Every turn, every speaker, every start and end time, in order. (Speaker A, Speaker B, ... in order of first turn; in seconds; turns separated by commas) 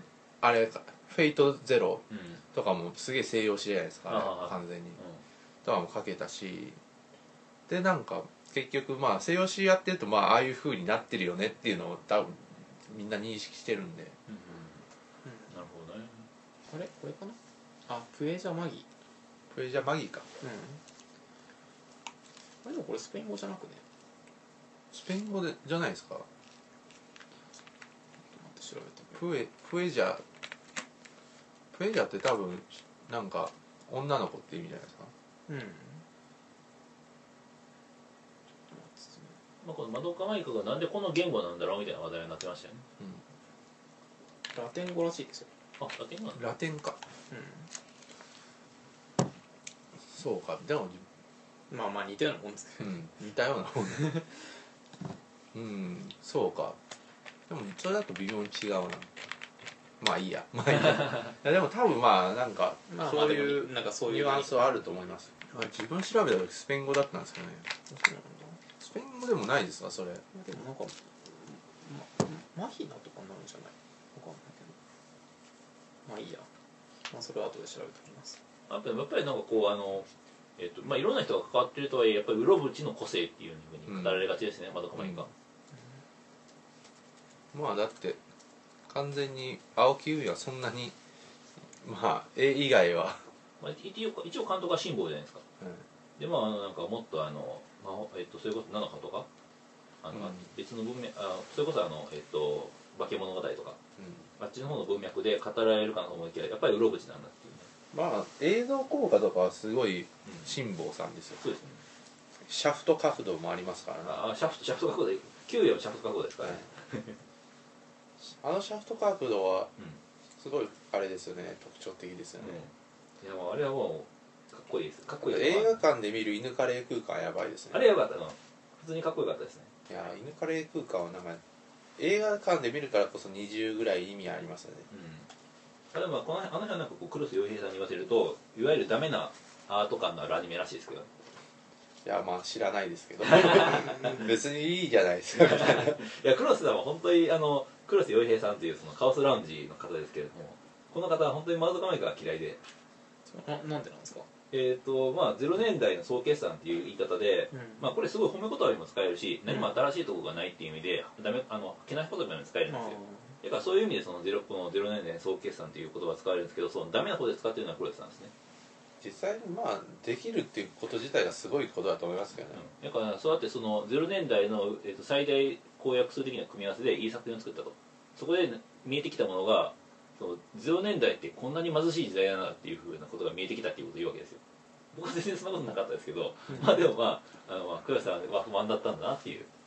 Speaker A: 0.4-5.0, Speaker B: 2.1-2.4, Speaker B: 4.1-5.2, Speaker A: 5.6-6.8, Speaker A: 7.7-14.2, Speaker B: 14.3-14.9, Speaker C: 15.2-15.5, Speaker B: 15.5-16.3, Speaker C: 16.7-18.9, Speaker A: 19.5-20.3, Speaker C: 20.4-20.8, Speaker C: 22.6-23.8, Speaker A: 24.9-26.2, Speaker C: 28.3-29.2, Speaker A: 29.1-30.2, Speaker A: 31.7-35.1, Speaker C: 35.5-36.0, Speaker C: 38.7-39.3, Speaker B: 39.6-42.9, Speaker C: 44.5-45.5, Speaker B: 45.8-46.4, Speaker A: 46.4-47.0, Speaker C: 47.3-47.7, Speaker A: 50.1-51.0, Speaker C: 51.7-53.1, Speaker A: 52.8-54.1, Speaker C: 53.9-54.4, Speaker A: 55.5-56.8, Speaker A: 57.5-59.3, Speaker A: 60.0-67.7, Speaker C: 62.9-64.7, Speaker C: 67.9-68.6, Speaker A: 68.8-70.2, Speaker C: 70.3-74.8, Speaker C: 76.1-76.5, Speaker C: 77.1-78.4, Speaker B: 78.7-85.3, Speaker A: 83.9-84.2, Speaker C: 85.7-86.0, Speaker A: 87.5-88.2, Speaker A: 88.9-90.9, Speaker A: 91.8-93.2, Speaker B: 93.6-95.4, Speaker B: 96.2-99.3, Speaker B: 100.0-103.8, Speaker A: 100.1-100.4, Speaker A: 104.0-104.2, Speaker B: 104.4-107.7, Speaker A: 107.9-111.4, Speaker B: 111.4-111.8, Speaker A: 112.4-114.2, Speaker B: 114.0-117.2, Speaker A: 118.2-119.7, Speaker A: 120.4-122.6, Speaker B: 122.4-125.8, Speaker A: 125.2-127.9, Speaker B: 127.7-129.7, Speaker A: 129.9-131.4, Speaker A: 132.0-134.9, Speaker B: 134.9-135.3, Speaker B: 135.9-141.1, Speaker A: 142.0-146.0, Speaker B: 143.2-144.2, Speaker B: 145.4-152.6, Speaker C: 153.3-154.3, Speaker B: 154.5-168.3, Speaker C: 157.5-157.8, Speaker C: 162.7-163.4, Speaker A: 169.0-172.6, Speaker B: 172.5-184.4, Speaker B: 184.9-189.5